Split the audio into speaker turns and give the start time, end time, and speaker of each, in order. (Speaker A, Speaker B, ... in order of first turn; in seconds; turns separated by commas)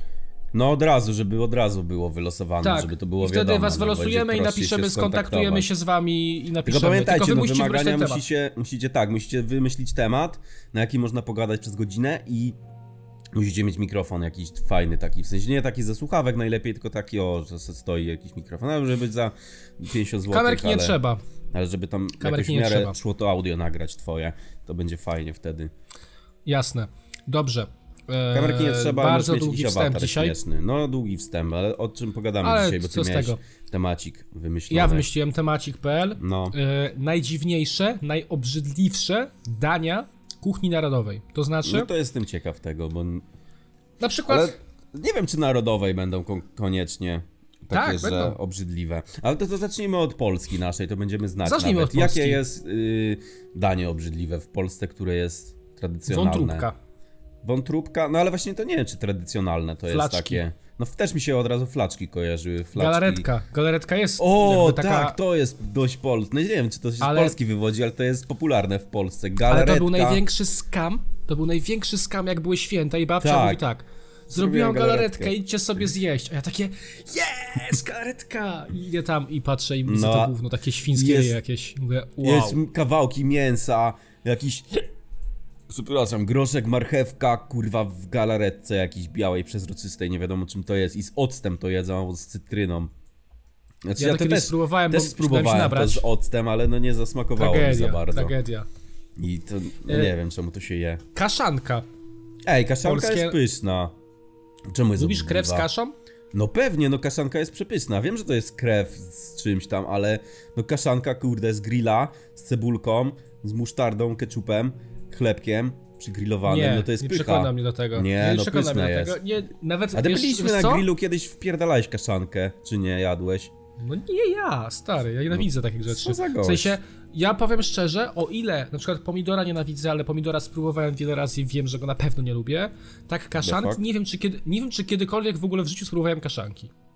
Speaker A: 0.5-5.7, Speaker B: 2.6-8.2, Speaker A: 6.6-12.6, Speaker A: 13.3-21.0, Speaker B: 20.3-21.2, Speaker A: 21.5-25.7, Speaker B: 22.2-22.9, Speaker B: 26.4-30.4, Speaker A: 28.3-35.1, Speaker B: 32.4-33.4, Speaker B: 34.7-41.9, Speaker A: 36.2-36.5, Speaker A: 41.6-43.2, Speaker B: 44.0-44.6, Speaker A: 44.3-56.7, Speaker B: 47.7-48.4, Speaker B: 51.4-52.4, Speaker B: 56.1-56.7, Speaker A: 57.4-63.2, Speaker B: 59.9-60.4, Speaker B: 62.7-65.2, Speaker A: 64.2-70.2, Speaker B: 67.0-67.4, Speaker B: 69.5-82.6, Speaker A: 73.2-73.6, Speaker A: 74.3-75.4, Speaker A: 79.8-80.3, Speaker A: 80.9-81.4, Speaker A: 82.2-84.9, Speaker A: 85.7-92.9, Speaker A: 93.8-98.3, Speaker B: 94.0-96.1, Speaker B: 97.4-98.7, Speaker A: 99.2-101.0, Speaker B: 99.9-100.1, Speaker B: 101.1-101.8, Speaker A: 102.5-104.0, Speaker B: 102.8-103.4, Speaker A: 104.7-105.7, Speaker B: 105.0-105.9, Speaker A: 106.3-119.2, Speaker B: 116.4-120.9, Speaker A: 119.9-123.5, Speaker B: 123.8-136.7, Speaker A: 125.3-126.8, Speaker A: 133.4-133.8